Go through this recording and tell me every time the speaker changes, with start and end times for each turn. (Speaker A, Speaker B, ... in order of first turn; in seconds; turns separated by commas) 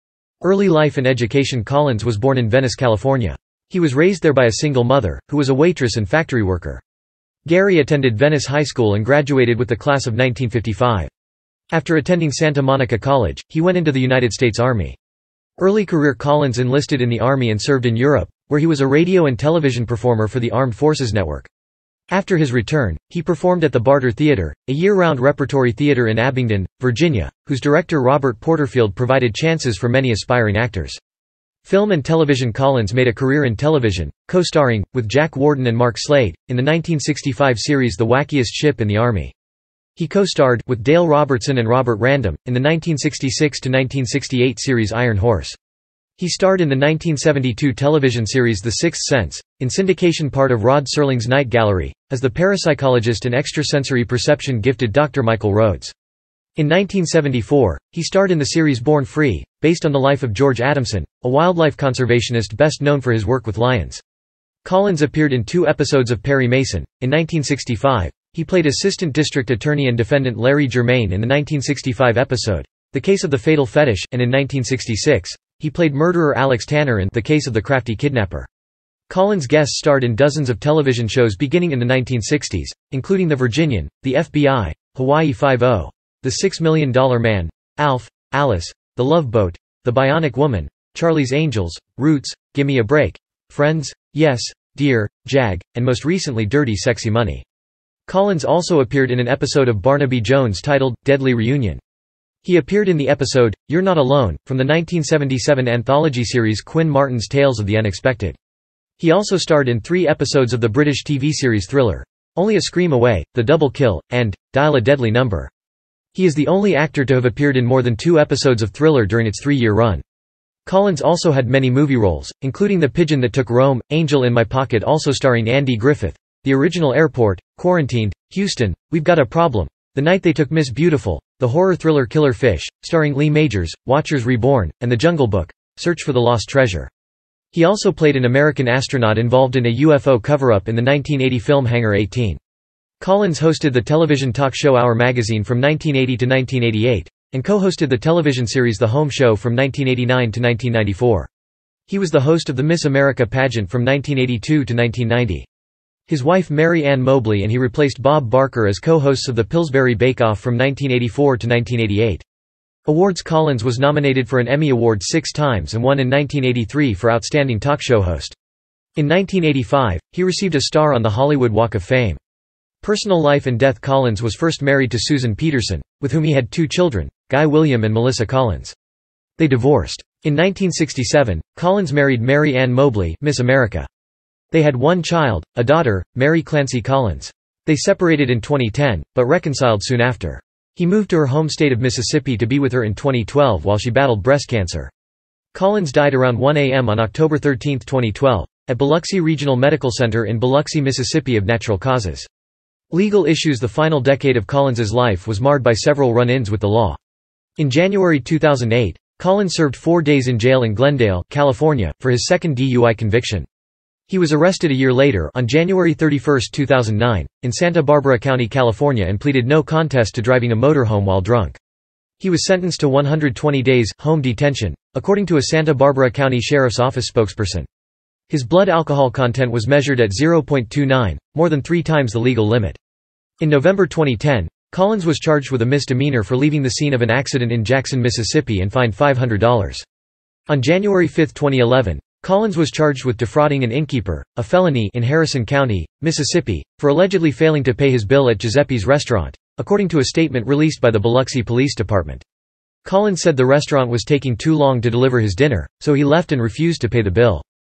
Speaker A: 0.4-6.8, Speaker A: 7.5-11.1, Speaker A: 11.7-15.0, Speaker A: 15.6-21.5, Speaker A: 22.1-31.0, Speaker A: 31.6-39.3, Speaker A: 40.0-45.6, Speaker A: 46.2-55.9, Speaker A: 56.6-64.0, Speaker A: 64.6-78.5, Speaker A: 79.1-97.4, Speaker A: 98.1-101.8, Speaker A: 102.4-108.4, Speaker A: 109.0-115.5, Speaker A: 116.1-120.0, Speaker A: 120.7-136.9, Speaker A: 137.5-142.4, Speaker A: 143.0-151.3, Speaker A: 151.9-155.5, Speaker A: 156.1-162.2, Speaker A: 162.8-168.3, Speaker A: 168.9-172.2, Speaker A: 172.8-178.7, Speaker A: 179.4-183.9, Speaker A: 184.5-194.9, Speaker A: 195.5-202.3, Speaker A: 202.9-207.0, Speaker A: 207.6-213.5, Speaker A: 214.1-221.6, Speaker A: 222.2-227.7, Speaker A: 228.3-232.8, Speaker A: 233.4-239.8, Speaker A: 240.5-252.2, Speaker A: 252.8-257.4